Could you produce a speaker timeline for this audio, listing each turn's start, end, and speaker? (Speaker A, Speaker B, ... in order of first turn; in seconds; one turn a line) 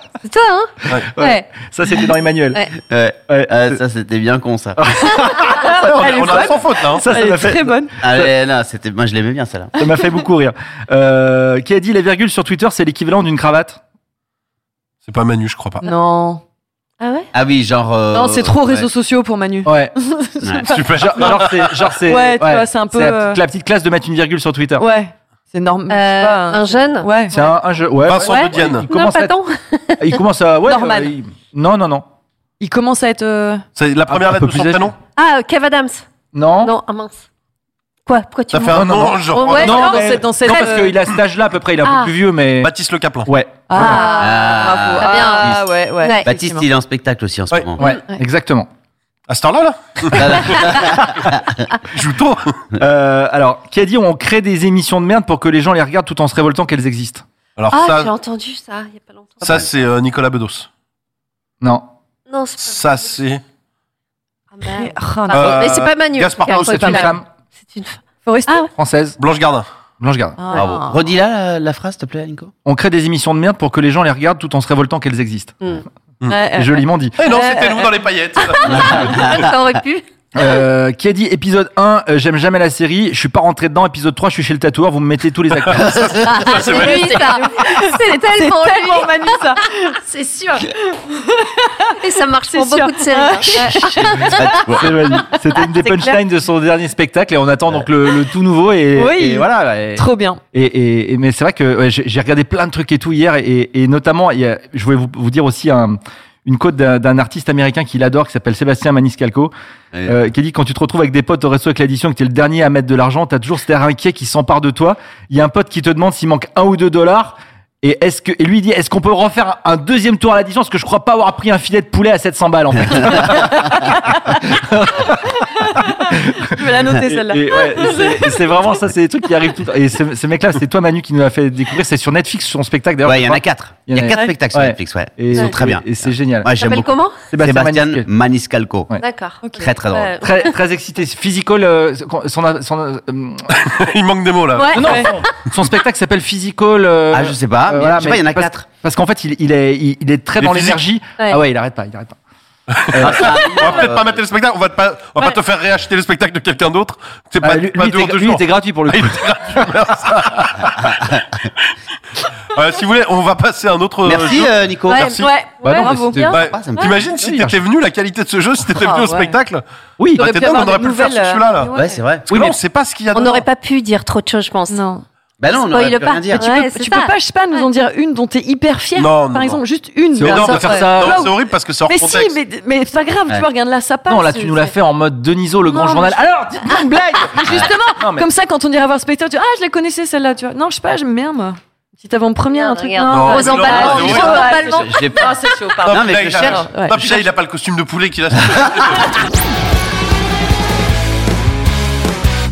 Speaker A: 0.2-1.5
Speaker B: 1.1-2.6
Speaker C: 2.8-4.9
Speaker B: 3.3-3.8
Speaker B: 4.8-6.3
Speaker D: 5.5-7.9
Speaker E: 5.8-7.1
Speaker B: 7.0-8.3
Speaker C: 8.0-9.8
Speaker B: 9.8-13.8
Speaker E: 15.1-15.9
Speaker D: 15.8-16.4
Speaker A: 17.0-17.3
Speaker C: 17.3-18.9
Speaker D: 18.1-21.4
Speaker B: 19.6-19.9
Speaker C: 20.4-20.8
Speaker E: 20.7-21.9
Speaker B: 20.9-24.9
Speaker D: 22.0-23.4
Speaker D: 24.8-27.4
Speaker A: 25.9-27.5
Speaker B: 27.3-29.4
Speaker E: 28.0-28.9
Speaker A: 28.2-30.2
Speaker B: 30.0-32.1
Speaker D: 30.6-31.1
Speaker D: 32.6-33.6
Speaker E: 33.8-35.0
Speaker B: 34.1-34.9
Speaker A: 35.2-37.2
Speaker B: 36.3-36.8
Speaker A: 38.1-39.9
Speaker E: 38.5-40.1
Speaker B: 38.7-42.7
Speaker D: 39.5-41.0
Speaker A: 40.5-40.8
Speaker A: 41.8-42.1
Speaker E: 42.6-43.3
Speaker B: 43.3-44.1
Speaker D: 43.7-46.7
Speaker A: 43.8-46.3
Speaker C: 44.2-45.6
Speaker C: 46.2-47.9
Speaker B: 47.8-48.7
Speaker E: 49.3-50.7
Speaker C: 50.2-51.1
Speaker E: 51.9-52.6
Speaker B: 52.8-57.2
Speaker E: 57.6-58.1
Speaker A: 57.7-59.6
Speaker E: 59.4-60.7
Speaker B: 61.6-61.9
Speaker A: 62.3-62.9
Speaker E: 62.6-63.4
Speaker A: 64.5-68.6
Speaker D: 64.7-65.5
Speaker E: 65.3-66.9
Speaker B: 66.4-67.2
Speaker D: 68.2-68.7
Speaker B: 68.7-69.2
Speaker E: 69.2-69.7
Speaker B: 70.0-70.5
Speaker D: 70.4-71.0
Speaker C: 70.5-72.5
Speaker B: 72.7-75.8
Speaker D: 76.3-78.0
Speaker B: 76.5-77.3
Speaker E: 77.2-79.4
Speaker A: 78.4-80.0
Speaker C: 78.7-79.4
Speaker B: 80.3-86.3
Speaker E: 85.8-87.3
Speaker A: 86.3-89.6
Speaker D: 86.3-96.2
Speaker A: 92.0-94.5
Speaker B: 93.7-109.5
Speaker D: 98.9-100.4
Speaker B: 110.0-136.5
Speaker D: 125.9-128.5
Speaker C: 133.0-138.9
Speaker A: 136.6-137.3
Speaker B: 137.3-138.1
Speaker A: 139.0-140.5
Speaker D: 139.4-139.9
Speaker C: 139.6-140.2
Speaker B: 140.2-143.5
Speaker E: 143.6-145.0
Speaker A: 144.6-145.1
Speaker D: 144.7-145.1
Speaker B: 144.7-152.2
Speaker C: 147.1-148.6
Speaker E: 150.4-150.8
Speaker E: 152.7-161.7
Speaker B: 152.9-153.3
Speaker C: 153.0-154.3
Speaker B: 157.4-159.7
Speaker E: 162.5-165.3
Speaker C: 164.0-165.1
Speaker A: 164.9-166.1
Speaker D: 165.1-166.9
Speaker B: 165.6-166.4
Speaker E: 166.2-169.6
Speaker C: 166.3-167.1
Speaker B: 167.1-167.6
Speaker D: 168.7-169.4
Speaker B: 170.0-170.3
Speaker E: 170.2-171.7
Speaker D: 170.2-172.1
Speaker C: 171.7-172.5
Speaker E: 172.3-173.5
Speaker A: 173.1-174.8
Speaker D: 174.7-175.1
Speaker C: 175.4-176.5
Speaker A: 175.5-177.7
Speaker D: 176.3-184.8
Speaker E: 179.0-179.6
Speaker B: 180.2-181.2
Speaker E: 180.2-182.3
Speaker A: 180.4-180.9
Speaker B: 184.1-188.3
Speaker D: 185.6-197.3
Speaker A: 192.5-195.5
Speaker E: 193.1-194.5
Speaker C: 193.6-194.1
Speaker C: 194.8-196.7
Speaker E: 195.8-199.1
Speaker C: 198.4-198.7